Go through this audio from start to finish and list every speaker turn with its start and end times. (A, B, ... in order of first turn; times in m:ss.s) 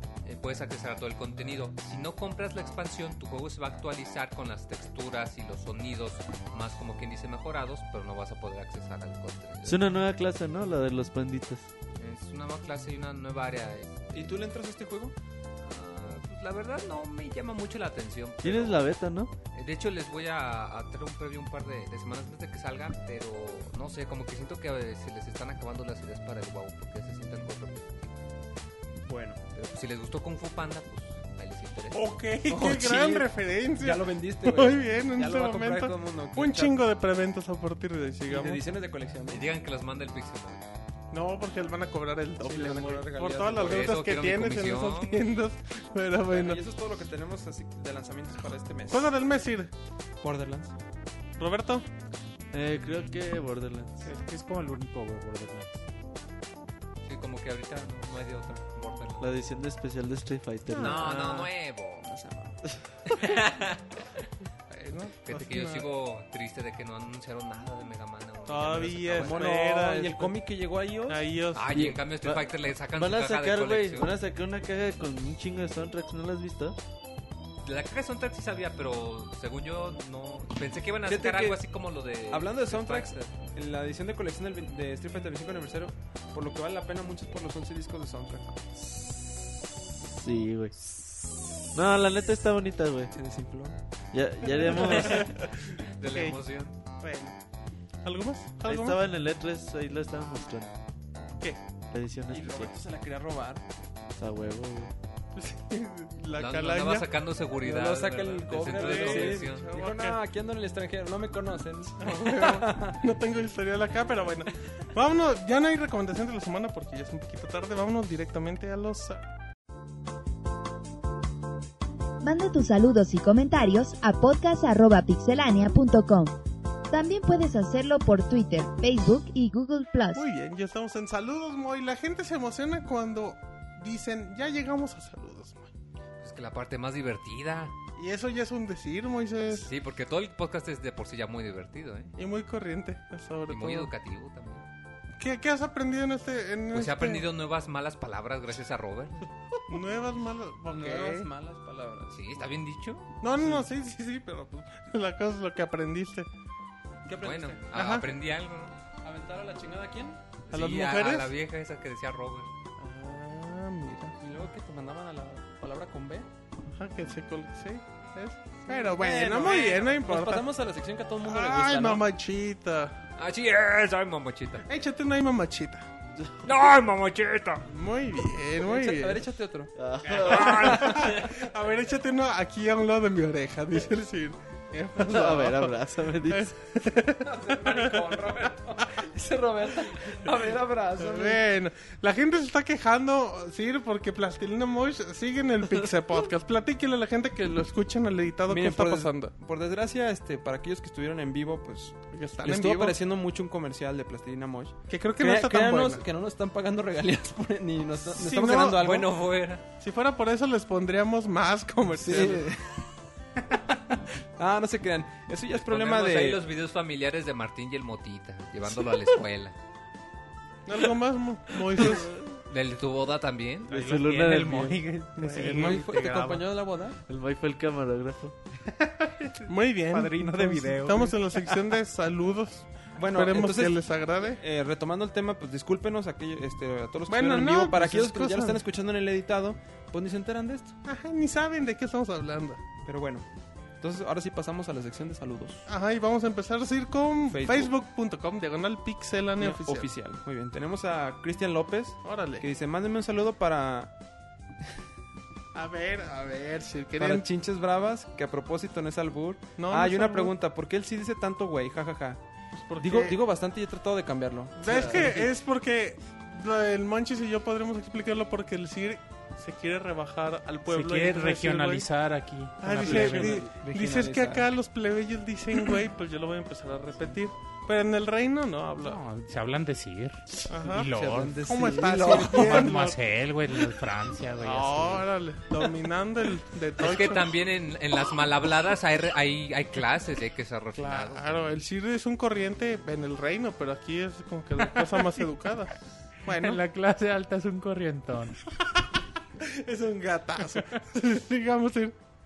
0:00.2-0:09.9 A
0:09.6-0:11.7 B
0:12.0-0:14.4 A
0:14.1-0:15.2 C
0:15.6-0:18.8 A
0:18.4-0:19.3 B
0:19.5-0:28.2 A
0:29.0-0:29.4 C
0:29.5-0:32.0 A
0:31.9-0:38.6 D
0:32.5-0:36.8 C
0:38.3-0:39.5 C
0:39.3-0:40.6 A
0:41.1-0:46.6 D
0:42.4-0:43.9 C
0:43.6-0:45.3 A
0:46.3-0:49.1 C
0:48.9-0:49.7 D
0:50.2-0:50.8 C
0:51.4-0:51.9 D
0:52.5-0:54.1 B
0:54.0-0:55.8 E
0:57.0-0:59.3 A
0:59.2-1:01.1 B
1:00.7-1:01.2 D
1:00.8-1:02.1 A
1:01.0-1:02.6 C
1:03.1-1:04.0 A
1:04.7-1:05.9 D
1:05.2-1:09.4 A
1:08.5-1:10.4 D
1:09.2-1:11.2 C
1:11.1-1:11.9 D
1:11.5-1:14.2 A
1:11.7-1:16.8 B
1:17.6-1:23.3 A
1:21.1-1:21.6 C
1:22.3-1:28.5 C
1:30.1-1:31.0 B
1:31.7-1:33.1 B
1:33.1-1:33.8 C
1:34.1-1:35.3 B
1:34.6-1:36.4 D
1:36.0-1:36.8 A
1:37.0-1:37.4 D
1:38.0-1:39.0 D
1:38.6-1:40.8 B
1:41.9-1:42.8 B
1:42.3-1:43.6 C
1:44.2-1:44.9 B
1:45.4-1:47.1 D
1:46.4-1:49.7 A
1:47.6-1:53.0 C
1:48.6-1:50.2 D
1:52.0-1:59.2 D
2:02.2-2:06.4 F
2:06.9-2:10.2 F
2:10.1-2:15.7 D
2:16.2-2:17.7 A
2:18.0-2:19.7 D
2:19.5-2:22.1 A
2:22.2-2:23.9 D
2:23.5-2:24.7 A
2:25.2-2:27.2 D
2:26.7-2:29.3 A
2:29.7-2:31.3 D
2:30.7-2:32.2 C
2:32.1-2:33.1 A
2:33.2-2:36.3 D
2:33.4-2:33.7 C
2:37.1-2:37.7 C
2:37.2-2:38.8 A
2:37.7-2:38.1 D
2:39.0-2:40.2 C
2:40.5-2:42.5 A
2:40.5-2:41.3 D
2:42.8-2:44.2 D
2:44.2-2:46.3 C
2:46.7-2:50.5 D
2:48.7-2:52.1 C
2:51.2-2:53.0 D
2:53.2-2:54.6 A
2:54.7-2:55.9 D
2:56.4-2:57.6 A
2:57.7-2:59.3 D
2:58.6-2:59.7 C
2:59.8-3:00.9 B
3:00.1-3:01.4 A
3:00.2-3:09.0 D
3:05.0-3:06.5 B
3:07.2-3:11.4 C
3:11.0-3:19.3 D
3:18.5-3:29.1 C
3:22.1-3:23.0 D
3:24.9-3:26.0 D
3:28.1-3:29.1 D
3:28.8-3:29.6 A
3:29.8-3:32.5 D
3:32.0-3:32.6 C
3:34.4-3:36.4 C
3:35.5-3:39.6 A
3:40.7-3:42.1 D
3:42.5-3:43.7 A
3:43.7-3:44.8 B
3:43.7-3:46.5 E
3:45.2-3:45.8 D
3:45.5-3:47.0 C
3:47.1-3:48.4 B
3:49.4-3:54.4 D
3:49.9-3:51.6 E
3:53.0-4:00.8 C
3:57.1-3:58.6 D
4:00.8-4:02.6 D
4:02.8-4:03.3 C
4:03.8-4:05.7 C
4:05.7-4:09.9 D
4:07.3-4:07.7 C
4:09.4-4:13.9 C
4:12.0-4:12.5 D
4:15.5-4:17.3 D
4:17.0-4:22.2 C
4:19.6-4:20.3 D
4:22.5-4:23.2 D
4:22.8-4:25.3 C
4:24.6-4:31.9 D
4:24.7-4:25.1 B
4:30.7-4:33.5 E
4:32.6-4:39.0 D
4:32.8-4:34.5 C
4:38.8-4:41.5 E
4:40.5-4:40.9 D
4:40.8-4:42.7 C
4:41.4-4:43.0 D
4:42.1-4:45.1 E
4:44.4-4:47.3 D
4:46.8-4:51.6 A
4:50.8-4:56.6 D
4:56.3-4:58.4 E
4:59.4-5:01.9 D